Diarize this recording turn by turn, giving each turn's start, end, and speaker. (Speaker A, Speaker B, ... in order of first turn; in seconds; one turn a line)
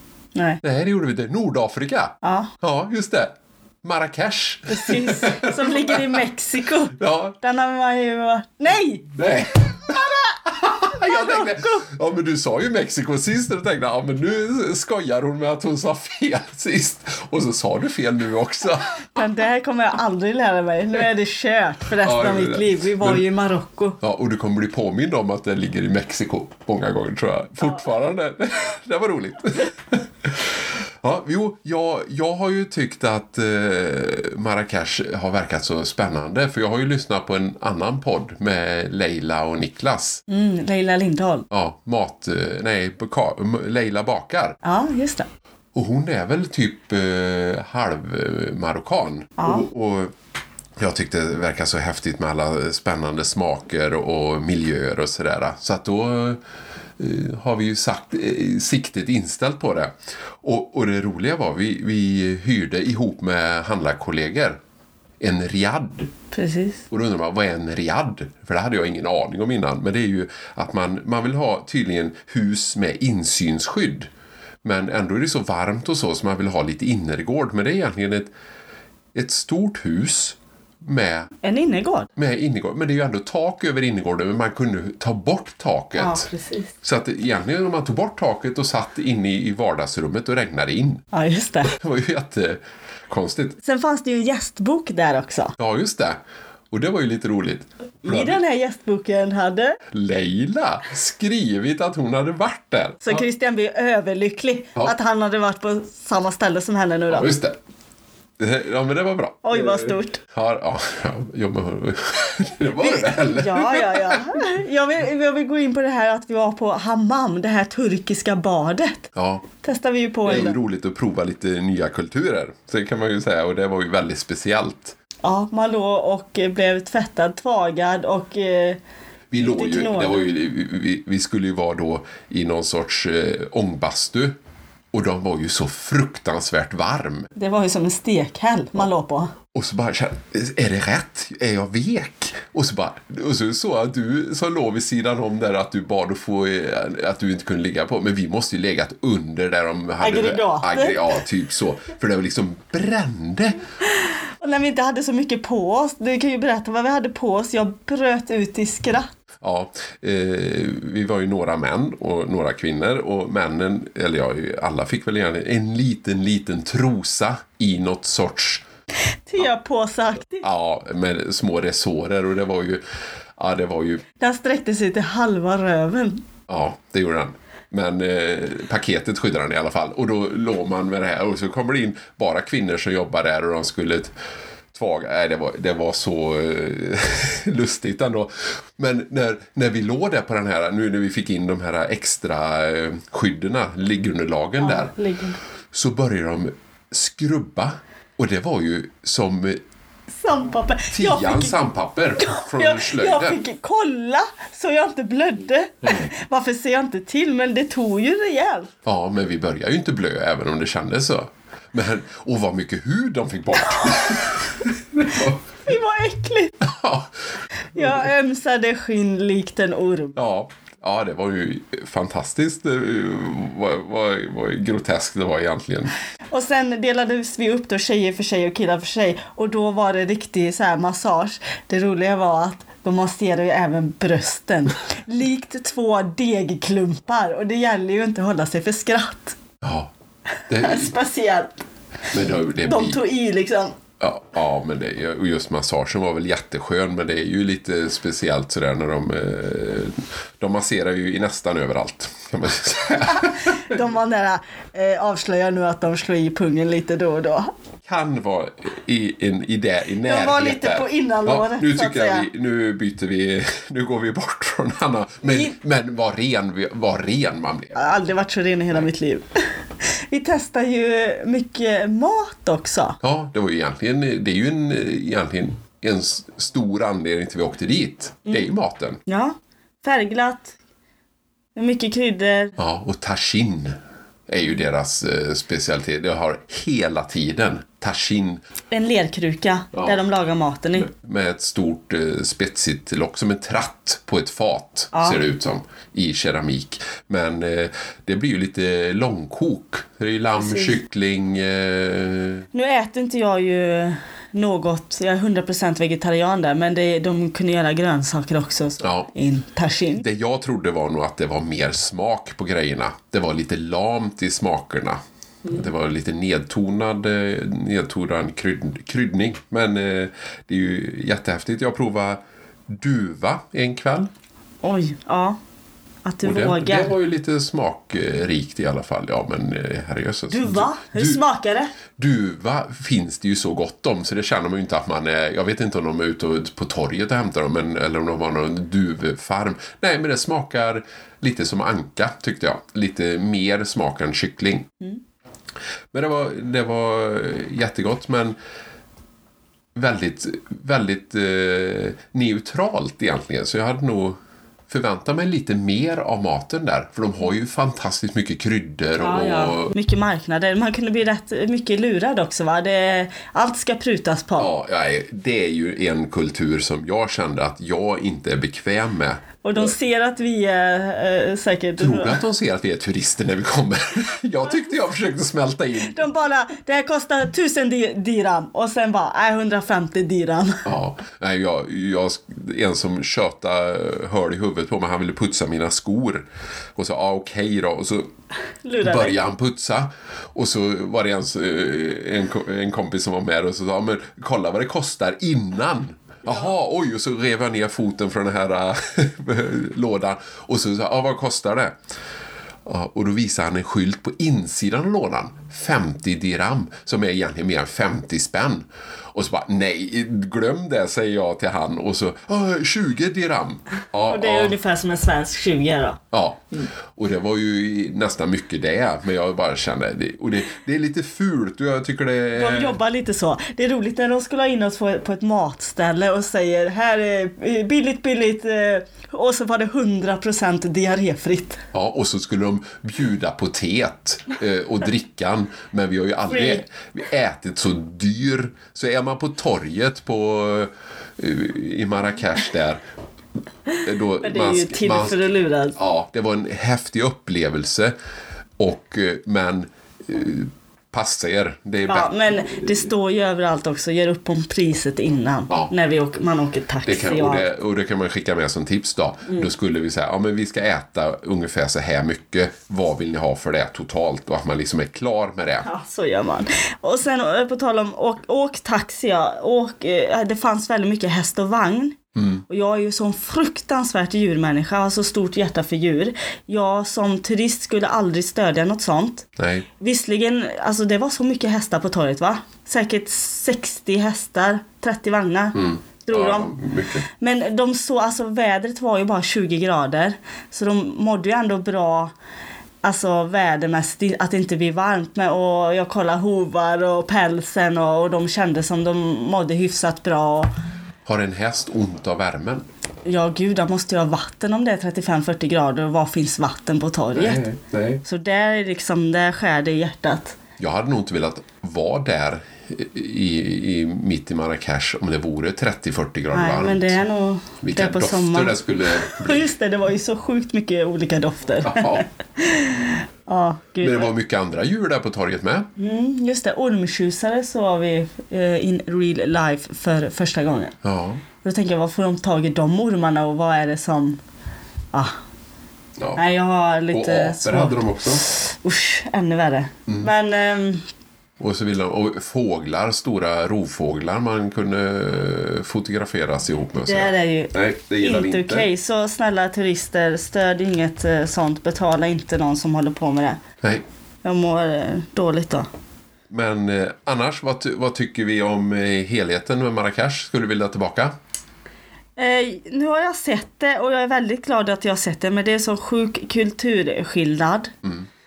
Speaker A: 0.3-0.6
Speaker B: 0.6-6.2
Speaker A: 2.2-2.5
Speaker A: 4.7-9.1
Speaker B: 6.9-7.4
Speaker B: 9.1-19.0
Speaker A: 11.0-11.8
Speaker A: 19.1-24.0
Speaker B: 22.0-23.2
Speaker B: 24.0-40.2
Speaker A: 40.3-41.5
Speaker B: 41.5-44.6
Speaker A: 44.6-45.3
Speaker B: 45.7-50.1
Speaker A: 49.4-49.7
Speaker B: 50.8-56.4
Speaker B: 57.0-64.6
Speaker B: 65.2-66.1
Speaker A: 66.3-66.8
Speaker B: 66.9-74.1
Speaker B: 74.6-78.3
Speaker B: 79.1-81.3
Speaker A: 81.4-82.1
Speaker B: 82.2-86.3
Speaker A: 86.0-86.7
Speaker B: 86.8-91.0
Speaker A: 91.1-91.7
Speaker B: 91.7-93.6
Speaker A: 93.6-95.6
Speaker B: 95.6-96.2
Speaker B: 96.7-98.4
Speaker A: 98.0-99.8
Speaker B: 99.9-103.2
Speaker A: 103.0-107.3
Speaker B: 107.1-107.6
Speaker B: 108.4-114.4
Speaker A: 109.4-110.2
Speaker A: 112.8-120.6
Speaker B: 119.2-119.4
Speaker B: 120.2-125.0
Speaker A: 125.2-128.8
Speaker B: 129.3-134.4
Speaker A: 129.4-130.2
Speaker B: 134.9-137.3
Speaker A: 137.4-139.3
Speaker B: 139.5-153.6
Speaker A: 150.0-151.1
Speaker A: 154.0-159.1
Speaker B: 159.4-168.7
Speaker A: 169.3-170.5
Speaker B: 170.4-172.8
Speaker B: 173.4-174.0
Speaker A: 174.2-176.2
Speaker B: 176.5-184.1
Speaker B: 184.7-194.9
Speaker A: 194.6-195.4
Speaker B: 195.7-199.6
Speaker A: 200.2-201.6
Speaker B: 200.9-203.4
Speaker A: 202.2-208.7
Speaker B: 208.8-215.4
Speaker A: 213.7-214.3
Speaker A: 215.7-216.6
Speaker B: 216.6-217.1
Speaker A: 217.7-220.2
Speaker B: 217.8-218.1
Speaker B: 220.2-225.9
Speaker A: 226.3-239.4
Speaker B: 239.6-239.9
Speaker B: 240.5-240.9
Speaker A: 240.5-241.6
Speaker B: 242.1-243.0
Speaker A: 242.6-243.8
Speaker B: 244.0-253.8
Speaker A: 253.1-257.5
Speaker B: 257.9-267.8
Speaker A: 260.0-262.3
Speaker A: 267.8-269.3
Speaker A: 269.8-273.0
Speaker B: 273.0-279.0
Speaker A: 279.1-280.6
Speaker A: 281.6-282.6
Speaker B: 282.6-283.8
Speaker B: 284.3-288.4
Speaker A: 288.7-290.9
Speaker B: 289.7-290.0
Speaker B: 290.8-302.5
Speaker A: 294.9-295.2
Speaker A: 300.4-300.8
Speaker A: 302.5-310.0
Speaker B: 308.8-309.1
Speaker B: 310.0-324.1
Speaker A: 324.6-325.4
Speaker A: 326.1-326.9
Speaker B: 326.2-331.2
Speaker A: 330.3-331.7
Speaker B: 332.0-344.7
Speaker B: 345.9-348.4
Speaker B: 349.8-354.2
Speaker B: 354.7-359.7
Speaker A: 359.0-364.5
Speaker B: 364.4-369.2
Speaker A: 369.4-372.2
Speaker B: 371.8-376.1
Speaker A: 375.8-380.6
Speaker B: 380.6-388.1
Speaker A: 388.6-389.2
Speaker B: 388.8-401.8
Speaker B: 402.6-414.6
Speaker A: 414.1-416.0
Speaker B: 416.1-422.8
Speaker A: 422.3-431.6
Speaker B: 431.7-442.8
Speaker A: 436.3-436.6
Speaker B: 443.8-447.9
Speaker A: 444.2-445.8
Speaker B: 448.6-452.9
Speaker A: 451.9-457.4
Speaker B: 456.9-465.7
Speaker A: 465.6-479.3
Speaker B: 472.1-472.4
Speaker B: 479.4-479.7
Speaker A: 479.8-486.5
Speaker B: 485.6-487.0
Speaker A: 487.1-492.1
Speaker A: 492.8-500.5
Speaker B: 501.1-502.6
Speaker A: 503.1-507.4
Speaker B: 507.1-508.0
Speaker A: 508.0-510.4
Speaker B: 510.6-517.0
Speaker A: 516.3-524.1
Speaker B: 517.6-519.5
Speaker B: 521.6-522.0
Speaker B: 523.8-525.7
Speaker A: 525.8-530.8
Speaker B: 530.8-531.2
Speaker A: 531.4-534.2
Speaker A: 536.2-540.9
Speaker B: 536.9-538.2
Speaker B: 541.4-548.7
Speaker A: 546.9-553.4
Speaker A: 554.2-555.7
Speaker B: 556.3-561.1
Speaker A: 562.2-567.7